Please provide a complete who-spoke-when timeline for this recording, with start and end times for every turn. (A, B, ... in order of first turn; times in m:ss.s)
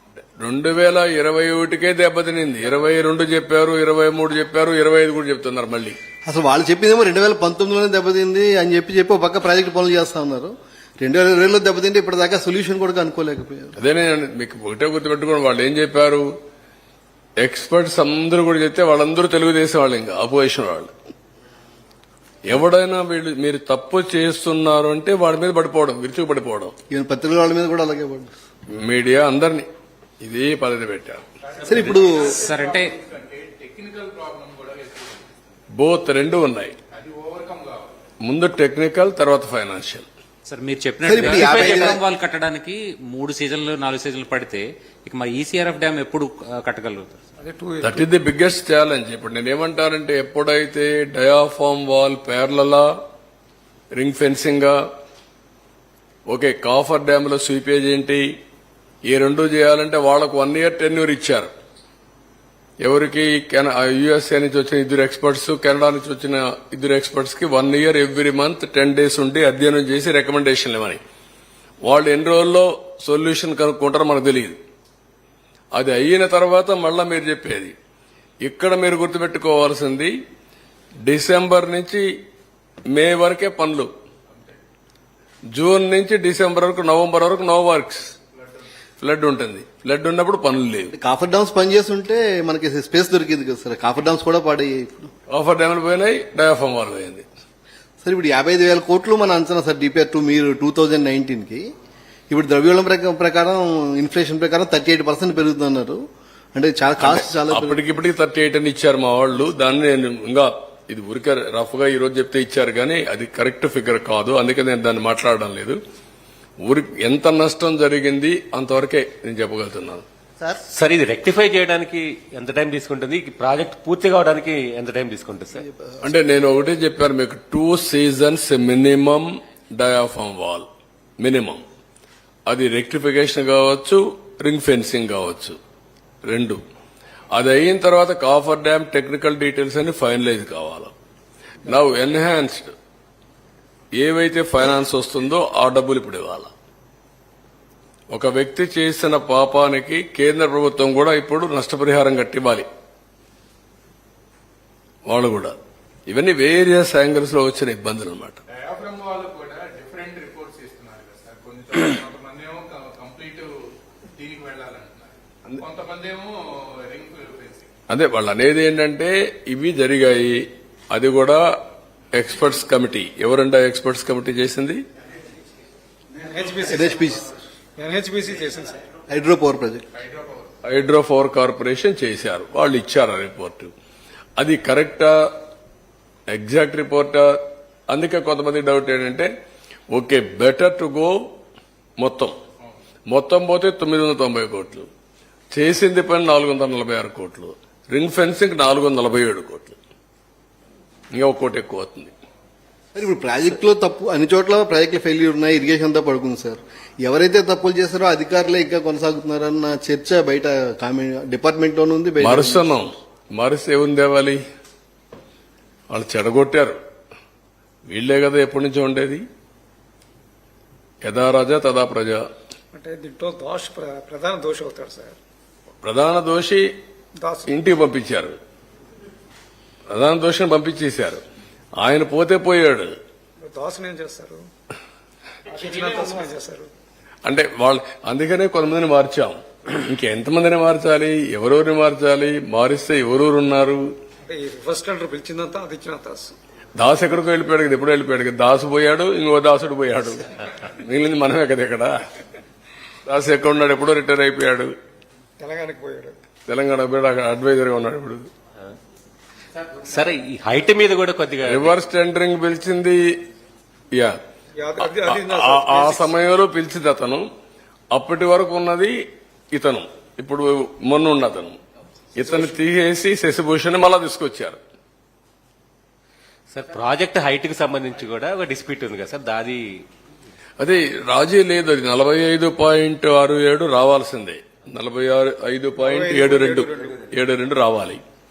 0:00.4-0:06.0 A
0:06.2-0:13.7 B
0:13.8-0:16.3 A
0:17.4-0:20.9 A
0:22.4-0:26.7 A
0:26.9-0:28.3 B
0:28.7-0:29.7 A
0:30.2-0:31.2 A
0:31.6-0:35.3 C
0:31.6-0:32.4 B
0:32.4-0:32.9 D
0:35.7-0:36.8 A
0:36.9-0:37.9 C
0:38.2-0:40.0 A
0:40.4-0:47.2 D
0:41.0-0:42.0 B
0:47.4-0:48.1 E
0:47.8-0:52.9 A
0:53.9-0:54.8 A
0:56.3-0:58.4 A
0:59.0-1:01.5 A
1:02.8-1:11.0 A
1:11.8-1:14.6 A
1:15.7-1:17.8 A
1:18.4-1:20.1 A
1:21.0-1:22.1 A
1:22.9-1:23.9 A
1:25.5-1:28.1 A
1:29.0-1:30.9 A
1:30.9-1:35.1 B
1:35.3-1:37.2 A
1:38.0-1:41.7 B
1:42.3-1:46.0 B
1:46.5-1:47.8 B
1:47.0-1:55.8 A
1:56.6-2:00.0 A
2:00.7-2:05.6 F
2:05.6-2:06.0 B
2:06.0-2:10.7 A
2:11.2-2:11.6 A
2:12.5-2:15.6 A
2:16.2-2:16.6 A
2:17.3-2:20.9 A
2:21.6-2:22.7 A
2:24.0-2:26.5 A
2:28.1-2:32.6 A
2:35.0-2:35.6 A
2:36.1-2:38.4 A
2:38.6-2:43.5 C
2:44.1-2:47.7 C
2:47.9-2:51.4 A
2:52.1-2:54.8 A
2:56.2-2:57.0 E
2:56.7-2:57.2 B
2:57.8-2:58.8 E
2:59.1-2:59.8 B
3:00.6-3:03.7 A
3:04.4-3:05.2 A
3:06.3-3:07.4 A
3:07.9-3:09.3 A
3:09.9-3:11.2 A
3:12.0-3:12.4 A
3:13.1-3:14.9 A
3:15.5-3:19.8 A
3:21.1-3:22.1 A
3:22.9-3:32.7 B
3:32.2-3:34.4 A
3:35.9-3:36.8 A
3:37.9-3:39.2 A
3:41.0-3:42.2 A
3:42.7-3:45.2 E
3:45.8-3:46.7 A
3:47.2-3:47.7 E
3:47.5-3:48.4 A
3:49.9-3:51.2 A
3:51.8-3:52.9 A
3:53.4-3:54.4 E
3:55.5-3:56.7 E
3:57.2-4:03.9 A
4:04.2-4:06.4 E
4:06.8-4:11.9 A
4:13.0-4:14.7 A
4:15.4-4:16.2 E
4:16.5-4:18.3 A
4:19.8-4:21.7 F
4:21.4-4:23.0 A
4:24.6-4:26.1 E
4:24.8-4:27.2 A
4:27.9-4:29.0 A
4:29.5-4:31.6 A
4:32.2-4:32.5 E
4:32.2-4:34.6 A
4:36.5-4:39.6 F
4:40.6-4:48.0 A
4:45.8-4:47.1 E